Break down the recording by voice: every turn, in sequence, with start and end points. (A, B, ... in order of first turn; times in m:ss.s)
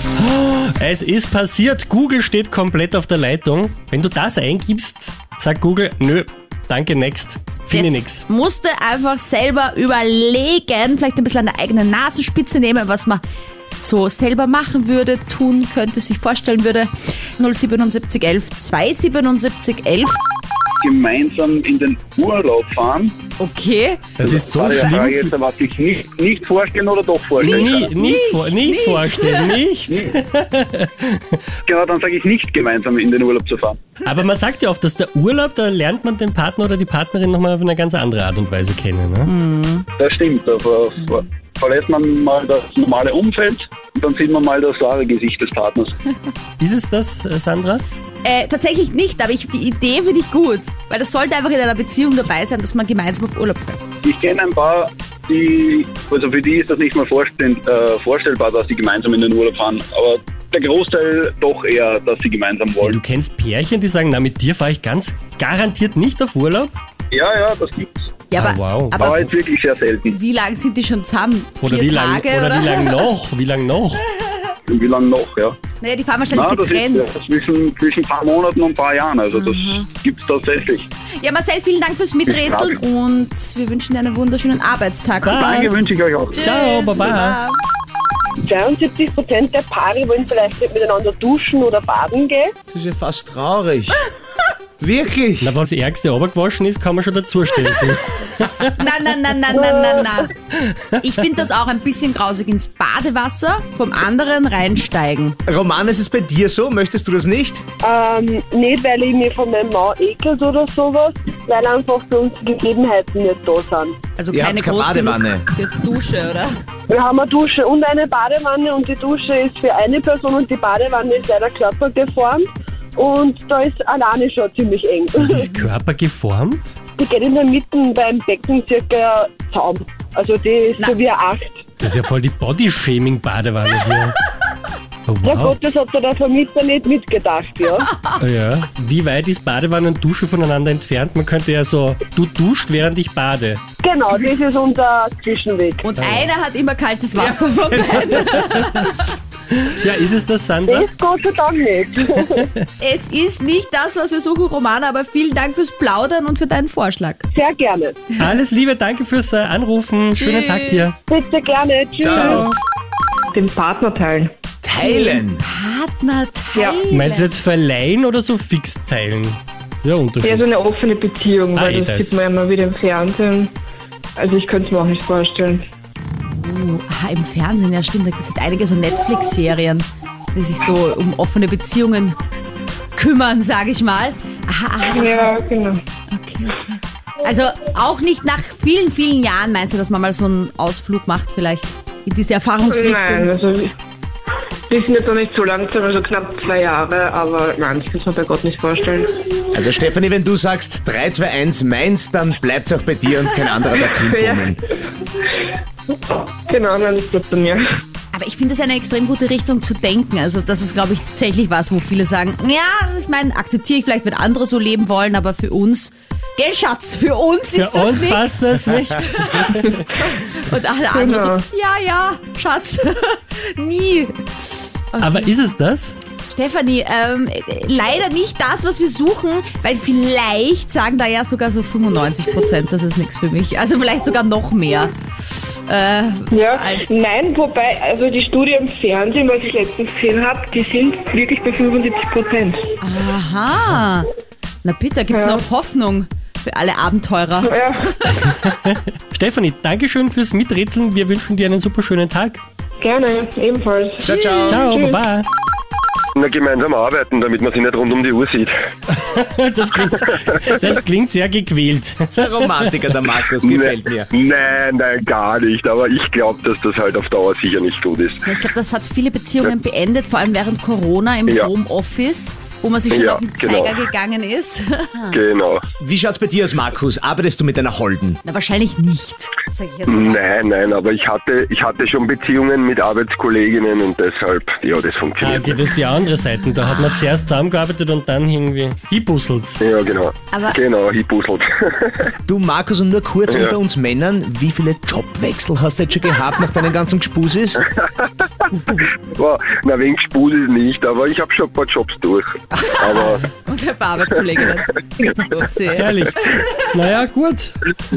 0:00.3-0:08.2 A
0:07.7-0:13.2 B
0:13.8-0:20.2 B
0:20.8-0:23.1 C
0:23.4-0:25.0 B
0:24.2-0:25.3 A
0:24.2-0:27.9 C
0:27.4-0:31.4 A
0:27.4-0:29.6 B
0:31.7-0:33.8 C
0:34.0-0:39.3 A
0:39.2-0:39.9 B
0:40.0-0:45.9 C
0:46.6-0:47.8 A
0:48.2-0:53.8 B
0:54.0-1:03.0 C
1:02.8-1:06.8 A
1:07.1-1:07.9 C
1:08.3-1:09.4 B
1:08.4-1:09.1 A
1:09.0-1:10.2 C
1:10.1-1:13.0 B
1:11.6-1:14.0 A
1:14.7-1:15.6 C
1:15.8-1:17.1 B
1:16.3-1:20.9 C
1:19.3-1:19.9 B
1:21.2-1:25.4 B
1:22.3-1:22.8 C
1:25.2-1:25.8 A
1:25.4-1:26.4 C
1:26.3-1:27.4 A
1:26.3-1:27.6 B
1:28.4-1:32.5 D
1:32.7-1:34.0 E
1:34.8-1:35.5 E
1:35.4-1:38.8 A
1:38.8-1:40.3 B
1:39.5-1:40.1 D
1:41.0-1:45.4 B
1:45.5-1:47.6 E
1:47.8-1:54.0 D
1:54.2-1:56.5 B
1:54.3-1:55.4 E
1:56.9-2:05.4 D
2:05.2-2:06.7 A
2:07.0-2:11.6 D
2:11.8-2:14.2 A
2:15.1-2:15.6 A
2:15.2-2:17.9 D
2:18.2-2:23.6 A
2:23.8-2:25.8 D
2:25.8-2:29.1 B
2:25.9-2:26.3 A
2:27.3-2:28.1 E
2:29.5-2:30.9 A
2:30.7-2:32.4 D
2:32.8-2:37.2 B
2:37.3-2:38.0 D
2:38.1-2:40.9 A
2:40.2-2:41.0 B
2:41.1-2:42.3 D
2:42.0-2:42.5 E
2:42.0-2:42.6 F
2:43.3-2:44.3 F
2:44.6-2:45.4 E
2:44.8-2:47.3 B
2:46.5-2:46.8 F
2:46.9-2:50.5 A
2:50.2-2:53.5 F
2:51.5-2:52.2 A
2:54.2-2:55.6 F
2:56.3-3:02.2 B
3:02.9-3:05.3 B
3:04.9-3:05.8 F
3:06.1-3:13.3 B
3:12.7-3:13.7 F
3:14.7-3:19.4 F
3:19.5-3:24.6 E
3:23.8-3:24.5 F
3:26.1-3:27.6 F
3:28.1-3:44.2 B
3:37.5-3:39.7 A
3:40.9-3:41.4 F
3:44.9-3:45.3 B
3:45.0-3:45.9 A
3:46.3-3:54.9 B
3:55.7-3:56.9 B
3:56.3-4:02.6 F
4:02.8-4:04.1 B
4:04.6-4:08.1 B
4:05.1-4:05.4 F
4:07.4-4:08.0 F
4:08.3-4:12.4 A
4:12.8-4:15.0 F
4:14.0-4:14.8 E
4:14.5-4:15.3 A
4:16.2-4:18.5 G
4:18.9-4:22.7 A
4:22.1-4:24.1 E
4:23.4-4:28.2 G
4:28.2-4:35.2 B
4:32.9-4:33.7 G
4:35.1-4:35.6 G
4:35.8-4:38.2 E
4:38.2-4:40.2 B
4:39.9-4:45.6 G
4:45.2-4:49.6 A
4:46.6-4:47.0 B
4:49.6-4:52.1 G
4:50.3-4:50.6 B
4:52.3-4:57.6 E
4:53.3-4:53.5 G
4:58.7-5:03.2 G
5:02.5-5:06.8 B
5:05.7-5:06.1 A
5:06.7-5:07.6 A